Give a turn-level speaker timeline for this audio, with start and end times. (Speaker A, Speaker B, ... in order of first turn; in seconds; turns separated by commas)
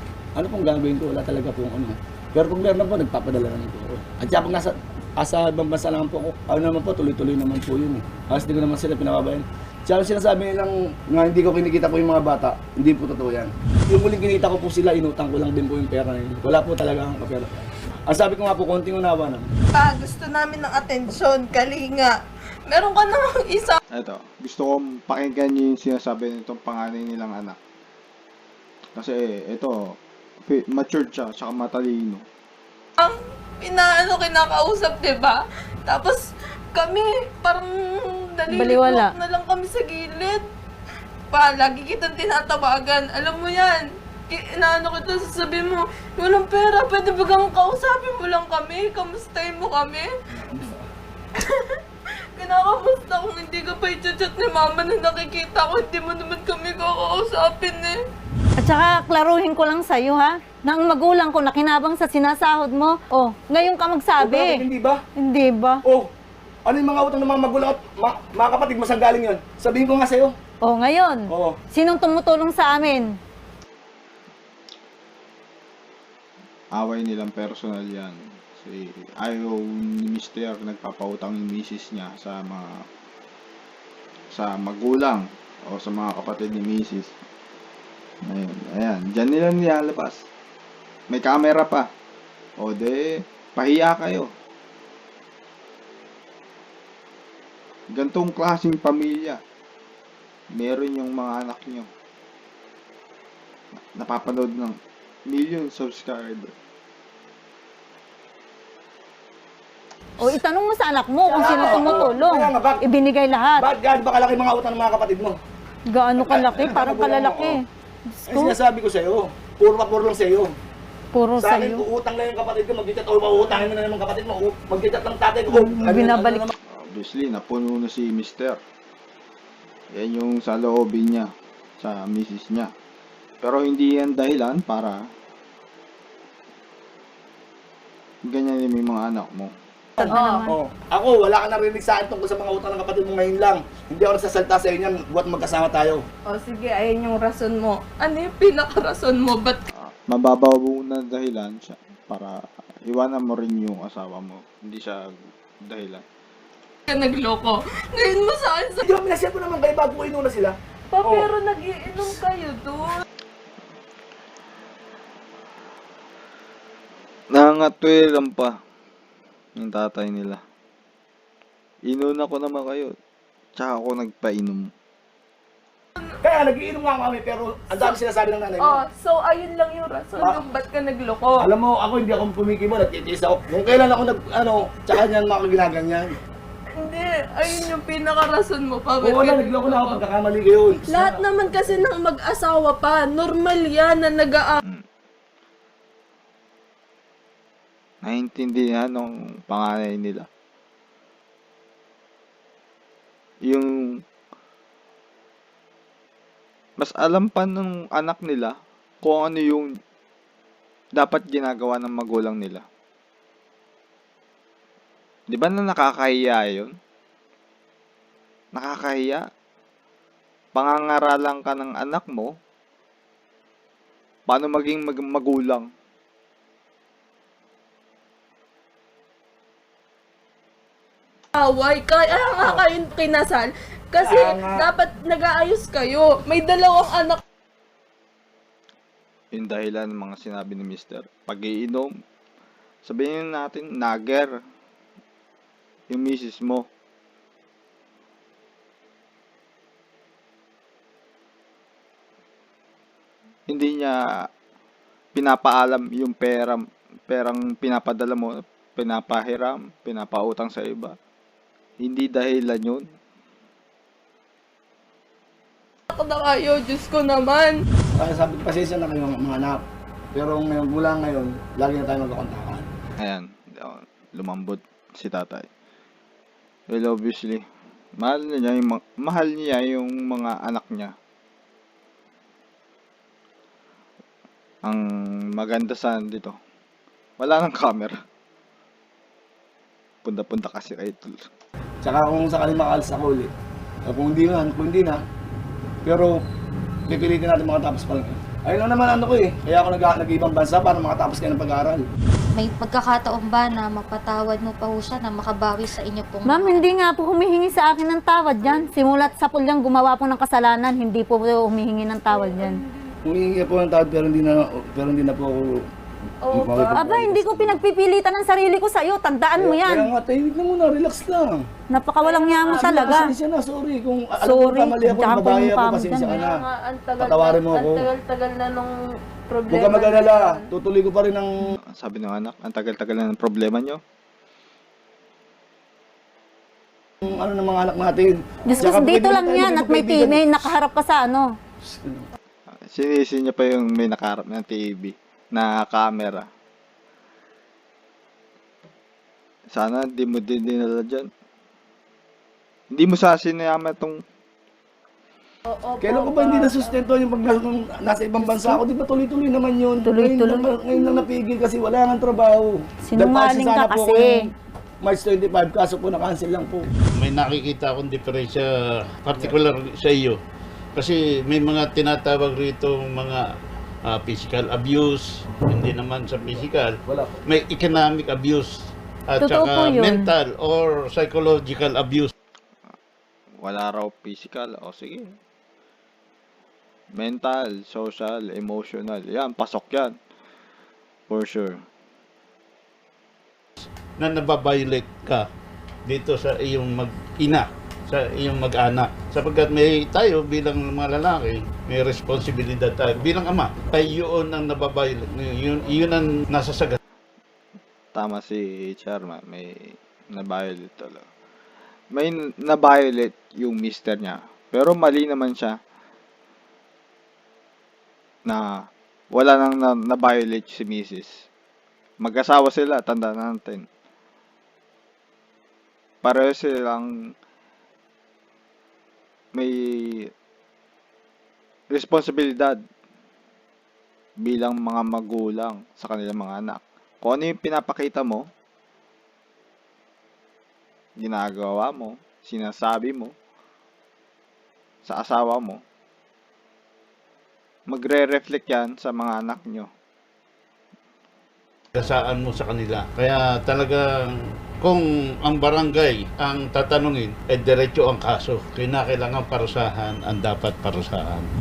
Speaker A: 0.4-19.5, Speaker B: 19.7-23.8, Speaker C: 23.9-27.6, Speaker C: 29.0-29.7, Speaker C: 30.5-32.2, Speaker B: 33.0-40.4, Speaker D: 38.5-39.1, Speaker B: 41.3-50.1, Speaker A: 50.3-50.9, Speaker B: 51.4-51.8, Speaker B: 52.4-58.0, Speaker D: 58.6-64.6, Speaker A: 64.2-65.0, Speaker D: 65.2-65.8, Speaker A: 66.7-70.3, Speaker D: 70.6-73.1, Speaker A: 71.3-71.6, Speaker C: 76.8-82.7, Speaker C: 84.3-87.2, Speaker C: 88.3-90.2, Speaker C: 91.1-91.9, Speaker C: 92.6-94.3, Speaker C: 98.0-99.4, Speaker C: 100.5-101.9, Speaker C: 104.0-104.8, Speaker C: 105.3-106.5, Speaker D: 110.2-113.6, Speaker A: 111.3-112.8, Speaker A: 113.6-115.3, Speaker D: 115.9-118.5, Speaker A: 116.2-117.6, Speaker A: 118.3-120.5, Speaker D: 121.1-121.8, Speaker A: 121.4-126.5, Speaker D: 125.5-126.5, Speaker C: 126.7-128.6, Speaker C: 129.9-132.7, Speaker C: 133.4-135.0, Speaker C: 138.3-139.5, Speaker D: 140.0-140.5, Speaker B: 140.1-140.4, Speaker A: 140.4-146.0, Speaker B: 146.3-149.6, Speaker C: 149.8-155.1, Speaker C: 155.6-156.0, Speaker B: 156.9-158.8, Speaker A: 158.8-161.3, Speaker B: 160.9-163.1, Speaker C: 167.3-168.6, Speaker C: 169.6-170.4, Speaker C: 171.9-172.9, Speaker C: 173.6-174.7, Speaker A: 176.2-178.8, Speaker B: 178.6-181.5, Speaker A: 181.4-186.1, Speaker B: 186.8-190.0, Speaker A: 189.0-191.9, Speaker B: 190.9-194.6, Speaker C: 198.0-200.3, Speaker C: 203.5-203.9, Speaker C: 206.8-209.7, Speaker C: 211.0-212.6, Speaker C: 215.3-216.8, Speaker C: 218.6-219.2, Speaker C: 220.6-222.3, Speaker C: 224.3-225.7, Speaker B: 231.4-237.2, Speaker A: 234.0-234.7, Speaker C: 239.3-241.9, Speaker C: 242.9-244.3, Speaker C: 245.9-246.7, Speaker C: 253.5-254.0, Speaker C: 255.2-260.9, Speaker C: 261.8-262.9, Speaker B: 265.9-267.6, Speaker A: 267.9-269.6, Speaker A: 270.1-272.7, Speaker C: 273.0-275.5, Speaker C: 276.7-277.4, Speaker C: 278.0-280.9, Speaker C: 284.6-286.4, Speaker C: 287.2-287.9, Speaker C: 290.0-291.2, Speaker A: 291.8-293.3, Speaker A: 293.9-295.0, Speaker A: 295.9-296.2, Speaker A: 296.9-301.9, Speaker E: 302.3-306.7, Speaker D: 306.2-312.6, Speaker A: 313.1-315.6, Speaker B: 316.2-316.8, Speaker A: 316.3-317.6, Speaker D: 316.8-319.9, Speaker A: 319.4-321.4, Speaker D: 321.7-323.1, Speaker B: 322.0-323.0, Speaker A: 322.5-326.4, Speaker D: 324.2-326.2, Speaker B: 326.1-330.5, Speaker A: 327.0-327.9, Speaker A: 329.5-331.6, Speaker C: 331.7-333.8, Speaker A: 337.0-340.6, Speaker D: 338.5-341.3, Speaker A: 341.7-342.1, Speaker C: 342.7-346.3, Speaker C: 349.5-351.1, Speaker C: 352.7-354.0, Speaker B: 355.5-356.8, Speaker A: 355.8-364.2, Speaker D: 359.9-360.6, Speaker D: 362.9-364.2, Speaker A: 364.8-366.7, Speaker F: 367.0-368.4, Speaker F: 369.0-370.2, Speaker F: 370.8-373.2, Speaker F: 373.9-376.8, Speaker A: 376.9-377.2, Speaker F: 377.3-378.5, Speaker F: 379.1-382.1, Speaker D: 379.2-380.1, Speaker C: 383.4-385.2, Speaker C: 387.0-389.9, Speaker C: 391.1-391.6, Speaker F: 394.0-395.2, Speaker F: 395.9-406.8, Speaker C: 407.9-411.1, Speaker C: 411.9-415.6, Speaker C: 419.1-421.2, Speaker C: 422.0-423.7, Speaker C: 426.0-426.9, Speaker C: 429.4-430.1, Speaker C: 431.7-432.6, Speaker C: 434.2-438.2, Speaker C: 441.0-443.1, Speaker C: 444.9-445.6, Speaker C: 447.7-449.7, Speaker F: 451.8-453.8, Speaker F: 454.6-461.3